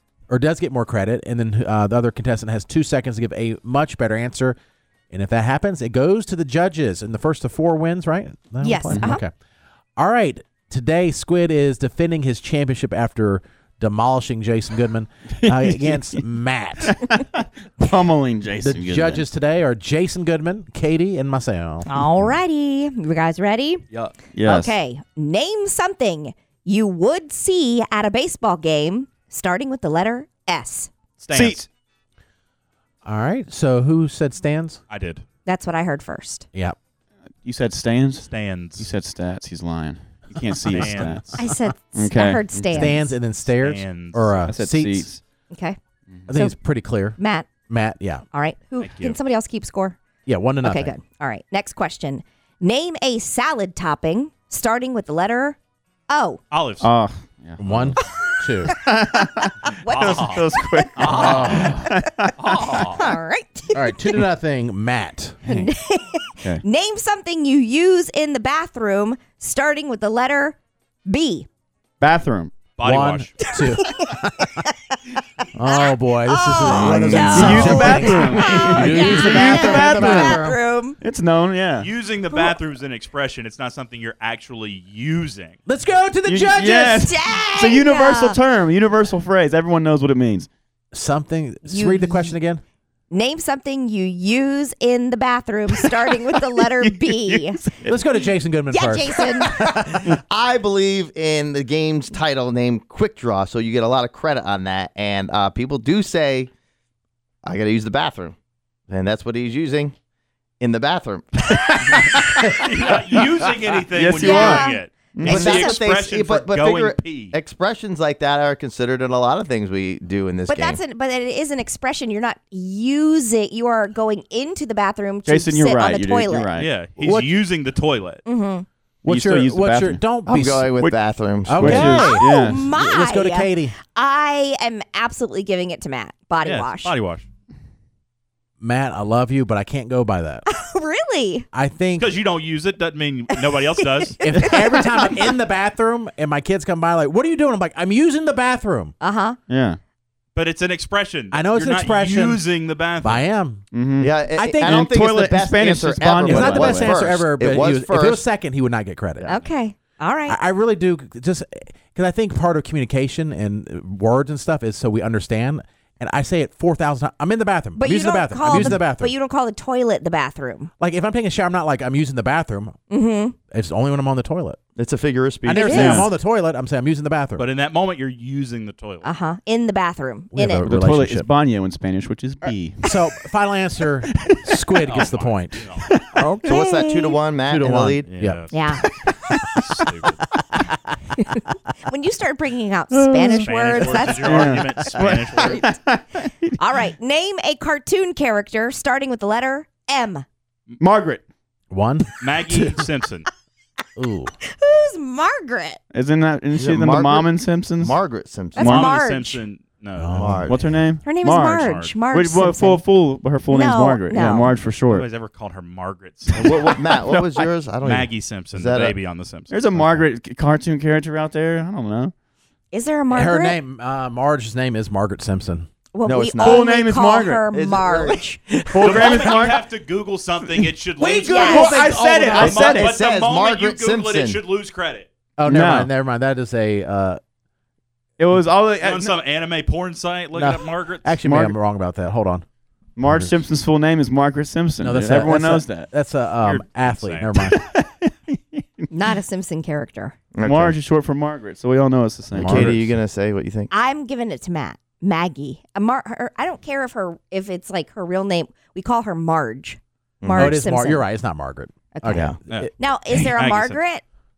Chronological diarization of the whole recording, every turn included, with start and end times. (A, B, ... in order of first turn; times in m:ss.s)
0:00.3-0:04.6 A
0:05.1-0:09.3 A
0:08.6-0:09.2 B
0:10.0-0:17.0 A
0:15.4-0:16.2 C
0:16.8-0:19.2 C
0:18.6-0:21.9 A
0:21.9-0:23.8 B
0:24.3-0:24.7 C
0:24.4-0:30.9 B
0:31.2-0:31.6 D
0:31.3-0:31.6 C
0:33.0-0:34.8 A
0:34.9-0:35.2 D
0:35.4-0:36.4 B
0:37.4-0:41.4 C
0:38.2-0:38.9 D
0:40.7-0:41.4 D
0:41.4-0:43.1 B
0:41.9-0:42.9 C
0:42.7-0:45.1 A
0:43.4-0:44.4 D
0:44.5-0:45.2 C
0:45.5-0:45.8 B
0:46.3-0:48.2 A
0:47.2-0:47.5 B
0:48.3-0:50.0 B
0:48.8-0:49.2 D
0:50.2-0:50.9 A
0:50.6-0:55.6 B
0:56.1-0:56.4 B
0:56.5-0:56.9 D
0:56.8-0:57.9 C
0:57.6-0:58.8 A
0:58.0-1:01.9 B
0:58.7-1:02.7 C
0:59.9-1:00.4 D
1:01.0-1:01.8 D
1:01.1-1:01.8 A
1:02.4-1:03.0 D
1:02.7-1:04.2 B
1:03.7-1:05.4 A
1:05.5-1:11.5 B
1:12.0-1:12.5 C
1:12.8-1:13.5 D
1:12.8-1:14.5 A
1:13.4-1:15.0 B
1:15.5-1:20.6 A
1:15.7-1:21.0 B
1:16.6-1:17.9 E
1:17.2-1:20.4 C
1:21.0-1:21.9 C
1:21.8-1:25.6 D
1:25.6-1:27.1 A
1:26.2-1:30.5 C
1:26.9-1:28.4 B
1:30.9-1:32.6 A
1:31.7-1:32.4 B
1:33.1-1:37.6 B
1:36.8-1:38.0 C
1:37.8-1:40.0 A
1:38.7-1:39.8 B
1:39.6-1:46.5 E
1:47.4-1:48.4 E
1:48.9-1:49.9 E
1:50.6-1:51.6 E
1:51.7-1:53.2 C
1:52.6-1:57.3 D
1:53.9-1:55.5 C
1:54.1-1:55.8 B
1:55.2-2:00.8 E
2:00.5-2:06.5 B
2:05.2-2:06.7 C
2:06.6-2:08.2 D
2:07.0-2:07.3 A
2:08.2-2:08.6 B
2:09.0-2:10.7 A
2:09.0-2:10.0 C
2:10.2-2:11.8 E
2:10.8-2:12.7 C
2:11.5-2:13.8 A
2:11.8-2:16.9 B
2:16.4-2:17.2 D
2:18.6-2:20.4 A
2:20.5-2:21.5 B
2:21.5-2:22.1 A
2:22.0-2:24.2 D
2:24.2-2:28.9 A
2:24.2-2:25.3 B
2:29.0-2:29.4 B
2:29.5-2:29.8 C
2:30.3-2:33.3 D
2:31.3-2:32.4 A
2:33.0-2:33.6 A
2:33.7-2:36.9 C
2:34.0-2:38.2 E
2:34.4-2:34.8 A
2:36.2-2:39.4 A
2:39.3-2:40.4 B
2:40.3-2:49.1 A
2:47.8-2:50.7 B
2:50.8-2:52.8 A
2:52.9-2:53.3 B
2:53.5-2:54.6 A
2:54.8-2:56.0 E
2:55.4-2:57.4 A
2:55.5-2:56.0 B
2:55.7-2:56.1 C
2:57.4-2:59.1 D
2:59.0-3:00.7 B
3:00.3-3:01.3 A
3:00.6-3:02.9 C
3:02.8-3:05.6 A
3:04.2-3:04.7 C
3:04.8-3:05.9 D
3:05.9-3:06.2 C
3:06.2-3:07.2 B
3:06.4-3:08.1 E
3:07.4-3:08.4 A
3:08.0-3:08.8 D
3:08.5-3:08.8 B
3:09.2-3:09.6 C
3:09.5-3:10.2 D
3:11.2-3:14.8 B
3:12.9-3:13.5 C
3:13.4-3:15.6 D
3:14.1-3:16.6 C
3:15.4-3:15.7 B
3:16.6-3:20.2 B
3:20.8-3:21.2 C
3:21.7-3:22.8 A
3:22.2-3:23.3 D
3:24.0-3:24.3 A
3:24.4-3:25.8 B
3:25.9-3:28.0 C
3:26.5-3:28.7 E
3:28.6-3:29.4 B
3:28.6-3:29.0 C
3:28.6-3:30.3 D
3:30.0-3:30.5 A
3:30.1-3:30.7 E
3:30.4-3:35.0 C
3:31.0-3:32.8 B
3:31.5-3:32.0 D
3:33.5-3:34.5 B
3:34.9-3:36.7 D
3:36.3-3:37.5 C
3:36.4-3:39.0 E
3:37.8-3:40.0 D
3:39.5-3:42.1 C
3:42.7-3:43.6 B
3:43.1-3:45.7 A
3:45.9-3:48.6 B
3:46.0-3:46.6 E
3:46.4-3:47.4 C
3:47.5-3:48.2 E
3:48.7-3:49.6 C
3:48.8-3:55.1 D
3:51.0-3:52.0 A
3:51.0-3:54.4 E
3:51.2-3:51.8 B
3:51.3-3:52.9 C
3:55.4-3:57.2 A
3:55.4-3:55.9 C
3:58.2-3:59.2 C
3:58.8-4:01.1 D
4:00.3-4:02.4 A
4:01.2-4:01.5 C
4:03.0-4:05.9 C
4:03.0-4:03.3 A
4:04.8-4:07.6 A
4:06.4-4:07.6 D
4:07.6-4:08.6 C
4:08.9-4:10.2 B
4:10.3-4:10.8 E
4:10.4-4:12.8 C
4:12.3-4:12.9 A
4:12.4-4:13.7 E
4:13.7-4:21.0 B
4:20.2-4:20.6 E
4:20.4-4:22.7 A
4:21.9-4:24.0 B
4:22.1-4:22.4 E
4:22.5-4:23.8 D